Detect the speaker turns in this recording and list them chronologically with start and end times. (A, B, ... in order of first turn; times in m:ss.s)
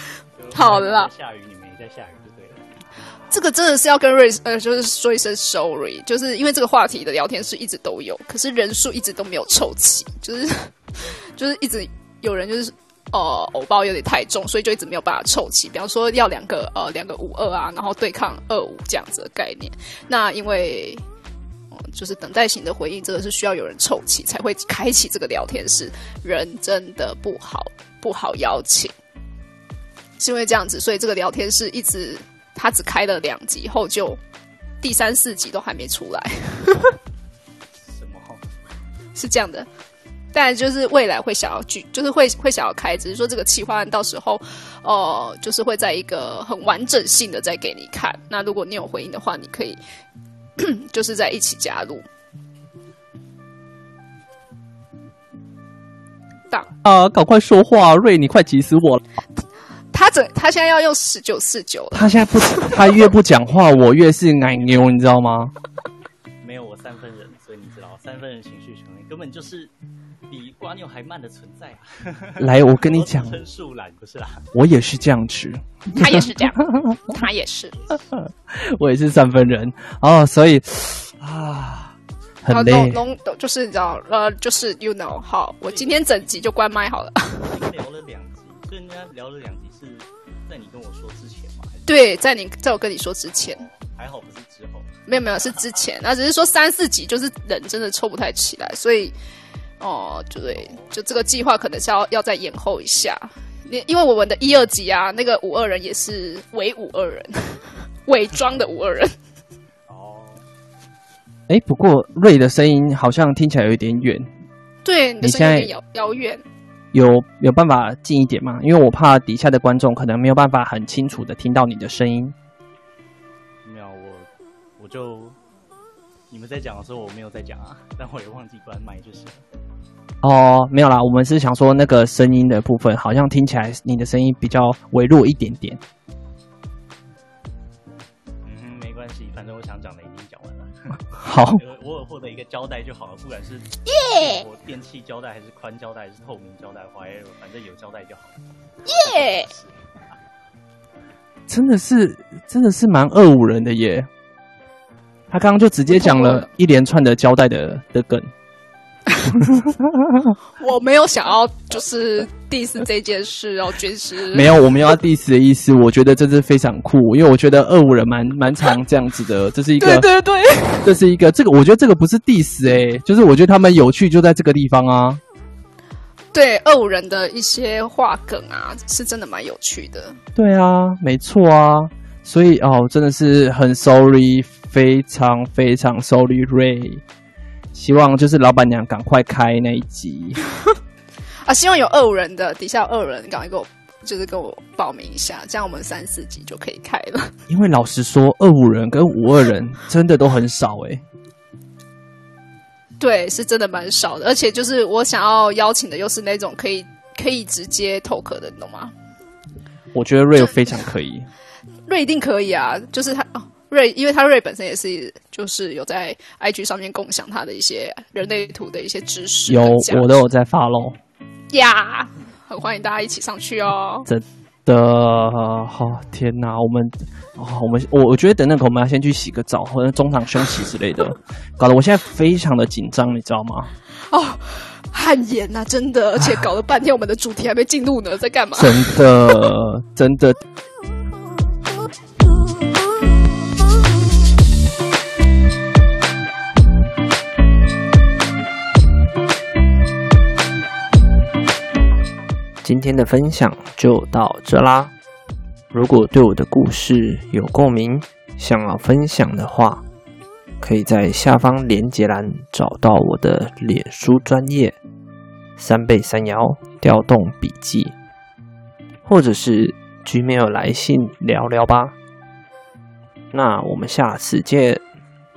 0:00.4-0:02.7 A
0:00.5-0:01.1 B
0:03.3-0:21.0 B
0:21.7-0:28.9 B
0:30.2-0:34.2 B
0:34.8-0:37.0 B
0:37.8-0:38.4 A
0:39.1-0:39.7 B
0:40.3-0:49.8 B
0:50.6-0:52.0 B
0:56.8-0:59.0 C
0:59.9-1:02.9 B
1:01.9-1:05.5 C
1:06.4-1:09.7 A
1:10.3-1:14.5 A
1:12.4-1:13.4 C
1:14.5-1:16.9 C
1:15.9-1:17.8 B
1:16.7-1:16.9 A
1:18.1-1:23.0 C
1:22.5-1:27.6 B
1:25.7-1:26.0 A
1:27.5-1:31.9 A
1:31.8-1:33.6 B
1:33.4-1:35.7 A
1:35.1-1:39.1 B
1:39.8-1:49.1 B
1:40.5-1:40.9 A
1:49.9-1:50.4 A
1:51.5-1:54.3 C
1:54.8-1:56.4 B
1:55.2-1:55.7 C
1:56.9-2:02.3 C
2:03.6-2:05.4 A
2:06.3-2:09.4 A
2:10.2-2:15.8 C
2:18.4-2:21.0 A
2:21.2-2:21.6 C
2:21.6-2:28.4 A
2:23.9-2:24.4 B
2:28.8-2:29.5 B
2:28.9-2:29.8 A
2:31.5-2:34.1 C
2:35.3-2:38.3 C
2:35.9-2:36.5 B
2:39.3-2:40.3 C
2:40.6-2:44.6 B
2:44.3-2:50.1 C
2:49.8-2:50.9 B
2:50.8-2:55.2 C
2:56.3-3:00.2 B
3:00.4-3:07.0 C
3:07.7-3:10.4 C
3:11.4-3:17.3 B
3:17.5-3:21.0 C
3:23.0-3:28.9 B
3:29.9-3:31.3 C
3:30.4-3:30.7 B
3:31.9-3:40.2 B
3:39.5-3:41.0 C
3:41.5-3:44.1 B
3:44.1-3:53.7 C
3:54.1-3:59.0 B
3:58.5-4:00.4 C
4:12.6-4:14.9 D
4:15.7-4:19.8 D
4:20.6-4:24.8 D
4:25.6-4:27.9 D
4:29.0-4:32.0 D
4:33.3-4:34.8 D